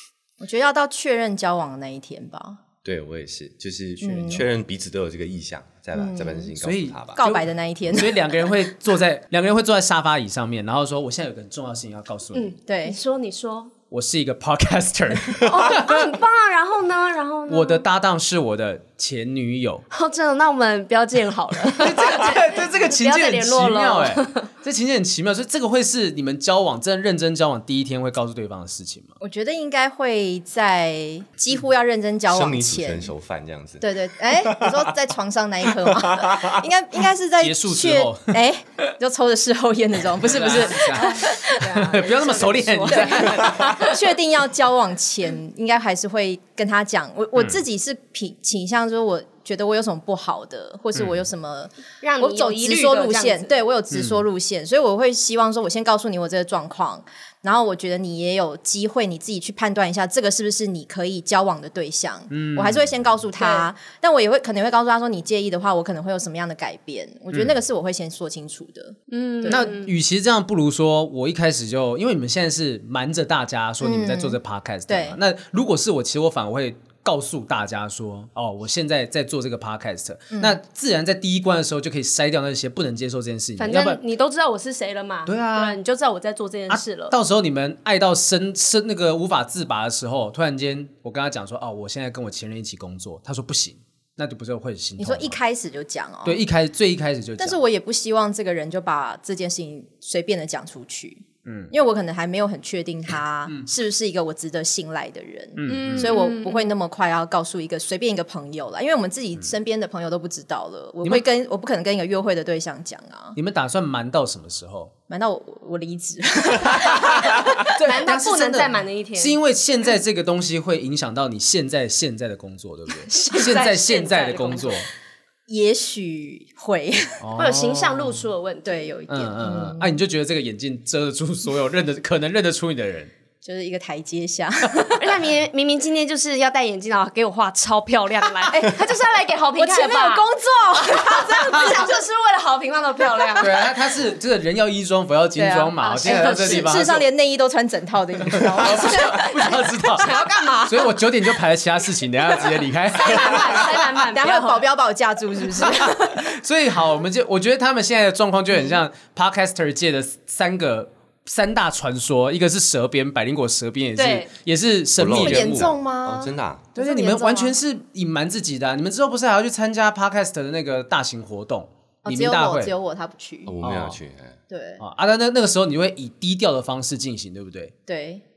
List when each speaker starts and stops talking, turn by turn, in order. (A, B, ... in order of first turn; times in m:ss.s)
0:00.4-0:02.6 A
0:02.8-0:07.2 B
0:04.0-0:04.4 A
0:06.0-0:06.5 A
0:06.6-0:12.5 C
0:07.2-0:08.5 A
0:12.3-0:13.7 D
0:12.7-0:13.0 A
0:13.9-0:16.1 C
0:15.4-0:17.8 D
0:17.5-0:19.8 C
0:19.9-0:24.5 D
0:21.8-0:29.2 C
0:29.2-0:33.1 A
0:32.3-0:34.9 B
0:33.8-0:41.7 A
0:35.6-0:36.6 B
0:37.4-0:38.4 C
0:40.2-0:43.9 C
0:40.6-0:44.0 D
0:42.9-1:09.8 A
0:52.0-0:53.5 D
0:53.9-0:54.2 C
1:02.3-1:02.9 C
1:03.4-1:03.7 D
1:09.1-1:09.9 D
1:09.5-1:24.0 C
1:13.8-1:15.2 A
1:20.3-1:20.6 A
1:23.6-1:27.1 D
1:25.3-1:25.8 C
1:26.7-1:35.4 C
1:35.0-1:36.4 A
1:36.2-1:37.6 C
1:37.4-1:53.4 A
1:41.5-1:41.7 C
1:45.6-1:46.2 C
1:45.7-1:46.7 D
1:53.4-1:54.9 C
1:55.1-1:57.7 A
1:56.8-2:04.9 C
1:57.2-1:59.4 D
2:03.1-2:04.8 D
2:05.5-2:07.2 A
2:07.2-2:08.2 C
2:07.4-2:08.9 D
2:08.6-2:10.0 A
2:09.1-2:13.1 C
2:13.4-2:15.3 A
2:15.0-2:23.6 D
2:18.5-2:18.8 A
2:19.6-2:21.9 A
2:23.4-2:27.0 C
2:25.4-2:30.3 A
2:25.8-2:26.8 D
2:28.3-2:30.1 C
2:28.7-2:31.0 D
2:30.7-2:33.9 C
2:32.9-2:34.7 D
2:34.1-2:36.3 A
2:35.6-2:45.7 C
2:44.0-2:44.3 D
2:45.0-2:46.7 B
2:45.1-2:47.6 A
2:46.8-2:52.7 C
2:52.0-2:53.6 A
2:53.5-2:54.4 B
2:53.6-2:54.0 C
2:54.5-2:54.8 A
2:54.8-2:57.7 C
2:57.9-2:58.2 A